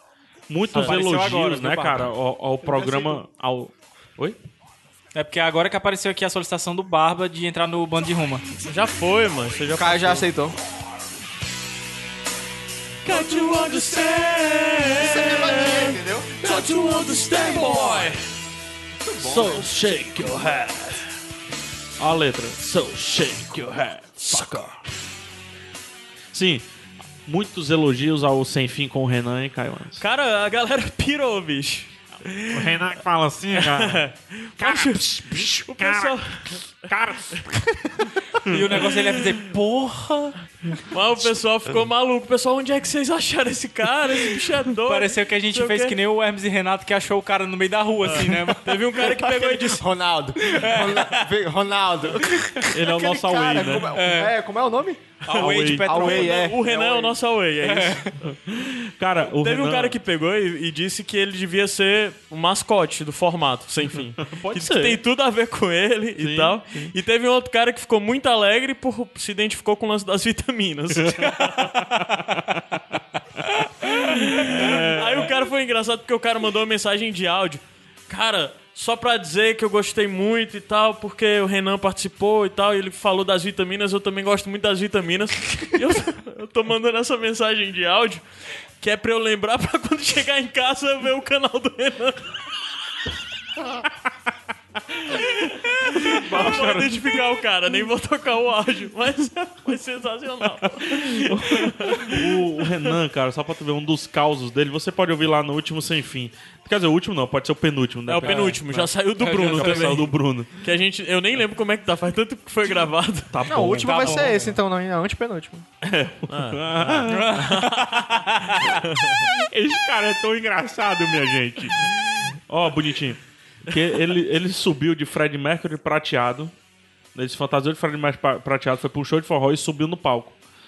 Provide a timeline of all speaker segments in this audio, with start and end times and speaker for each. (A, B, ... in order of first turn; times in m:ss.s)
0:00.5-0:04.4 A
0:00.7-0:02.1 B
0:00.7-0:01.0 C
0:02.6-0:03.2 B
0:05.1-0:08.4 B
0:08.6-0:10.3 C
0:09.7-0:10.6 D
0:13.0-0:18.2 C
0:14.9-0:16.6 D
0:17.3-0:18.1 D
0:19.0-0:19.7 D
0:19.2-0:21.0 A
0:22.0-0:24.8 A
0:24.2-0:24.7 C
0:26.3-0:26.6 A
0:27.2-0:30.0 A
0:30.0-0:32.8 C
0:32.5-0:34.0 A
0:33.5-0:36.6 C
0:34.6-0:37.6 A
0:38.4-0:38.9 A
0:38.5-0:40.5 B
0:40.9-0:46.0 C
0:44.8-0:49.4 B
0:48.0-0:49.8 C
0:48.9-0:57.1 D
0:50.4-0:51.2 B
0:52.7-0:53.9 A
0:53.9-0:54.3 B
0:55.2-0:57.0 B
0:55.3-0:58.0 C
0:55.4-0:56.1 A
0:57.6-0:58.0 B
0:58.2-1:00.0 A
0:59.3-1:11.7 C
1:03.9-1:05.0 A
1:06.2-1:06.9 A
1:11.0-1:12.6 A
1:13.9-1:28.2 C
1:14.3-1:15.3 A
1:28.8-1:32.3 C
1:35.1-1:42.4 C
1:36.0-1:37.2 A
1:40.7-1:50.5 A
1:48.1-1:50.1 C
1:48.2-1:48.6 B
1:49.2-1:50.0 B
1:50.6-1:54.5 C
1:53.3-1:54.4 A
1:53.4-1:55.6 D
1:55.8-1:57.6 A
1:56.3-1:59.2 C
1:57.1-1:58.1 B
1:59.2-2:06.5 A
2:07.1-2:10.4 A